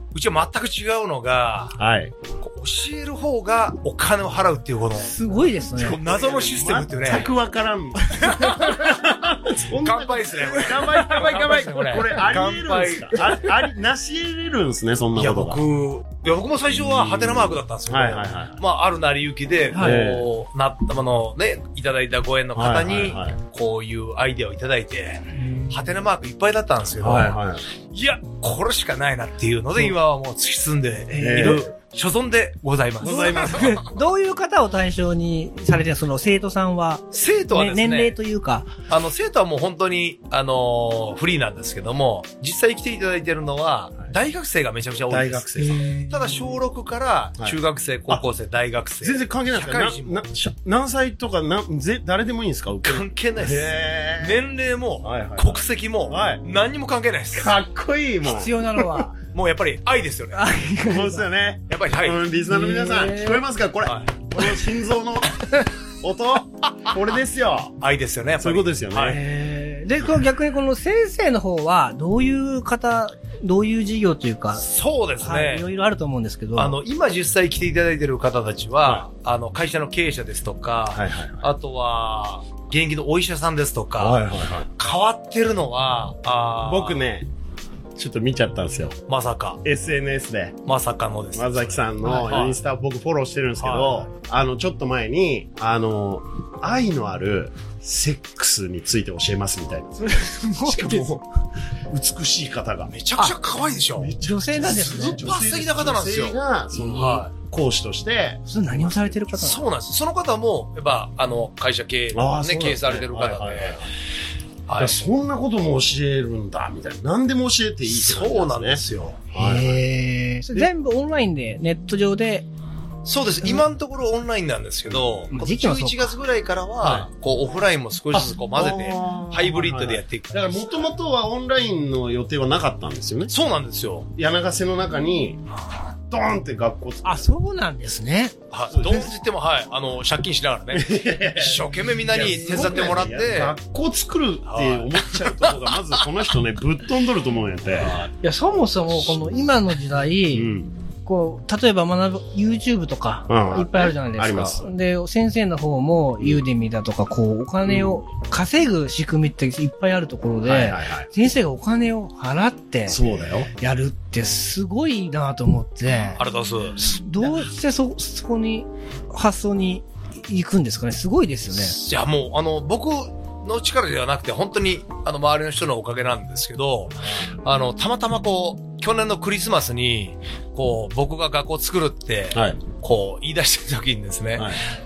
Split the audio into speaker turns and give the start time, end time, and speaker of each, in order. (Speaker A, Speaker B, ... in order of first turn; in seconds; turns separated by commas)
Speaker A: 0.1-1.8, Speaker B: 1.8-2.1, Speaker A: 2.4-5.1, Speaker C: 5.0-6.0, Speaker A: 5.8-7.3, Speaker B: 5.8-15.6, Speaker A: 8.2-8.8, Speaker C: 8.2-8.9, Speaker A: 9.7-13.3, Speaker C: 10.4-11.1, Speaker A: 15.2-27.4, Speaker B: 16.7-18.6, Speaker C: 19.7-20.0, Speaker B: 19.8-20.3, Speaker B: 22.6-23.4, Speaker C: 25.4-25.9, Speaker B: 27.0-27.6, Speaker A: 27.9-33.9, Speaker C: 31.1-31.6, Speaker B: 31.2-31.7, Speaker B: 33.0-33.8, Speaker C: 33.0-38.7, Speaker A: 37.1-38.2, Speaker A: 38.9-50.2, Speaker B: 45.1-45.8, Speaker C: 45.6-46.5, Speaker B: 49.0-54.4, Speaker A: 52.9-57.5, Speaker B: 55.0-56.4, Speaker B: 57.3-59.1, Speaker C: 58.2-59.1, Speaker A: 59.3-60.5, Speaker C: 60.4-61.3, Speaker B: 60.8-67.8, Speaker A: 61.7-62.2, Speaker C: 62.5-63.4, Speaker A: 63.9-64.1, Speaker A: 66.7-67.0, Speaker A: 67.8-69.2, Speaker B: 68.4-69.2, Speaker C: 69.0-74.7, Speaker A: 74.6-75.7, Speaker C: 75.2-76.8, Speaker A: 76.6-84.2, Speaker B: 80.9-81.5, Speaker B: 84.0-84.7, Speaker A: 84.8-87.0, Speaker B: 86.6-87.3, Speaker B: 88.0-89.0, Speaker A: 89.1-89.6, Speaker B: 89.6-90.6, Speaker A: 90.7-92.6, Speaker B: 91.3-101.2, Speaker C: 92.0-92.3, Speaker A: 93.6-94.1, Speaker C: 100.0-101.2, Speaker B: 101.9-102.9, Speaker A: 102.9-106.4, Speaker C: 104.0-105.2, Speaker B: 104.0-109.1, Speaker C: 106.7-107.2, Speaker A: 106.9-107.3, Speaker C: 108.5-109.6, Speaker A: 109.3-113.8, Speaker B: 112.1-113.9, Speaker A: 114.7-115.0, Speaker B: 114.8-119.8, Speaker A: 117.9-119.3, Speaker C: 119.3-122.5, Speaker A: 123.0-130.8, Speaker C: 125.3-126.1, Speaker B: 126.8-127.1, Speaker B: 128.1-133.3, Speaker A: 133.3-134.1, Speaker B: 134.1-135.4, Speaker B: 136.1-137.3, Speaker C: 137.1-138.4, Speaker A: 138.5-143.6, Speaker B: 138.7-139.2, Speaker B: 140.7-148.0, Speaker A: 144.5-146.1, Speaker A: 147.8-148.1, Speaker C: 148.2-150.5, Speaker B: 150.3-150.7, Speaker C: 151.1-163.0, Speaker B: 153.3-154.7, Speaker B: 157.7-158.0, Speaker B: 160.4-161.1, Speaker B: 162.9-163.5, Speaker C: 163.6-166.2, Speaker A: 166.2-166.8, Speaker C: 166.8-171.8, Speaker A: 171.5-184.6, Speaker B: 182.3-182.6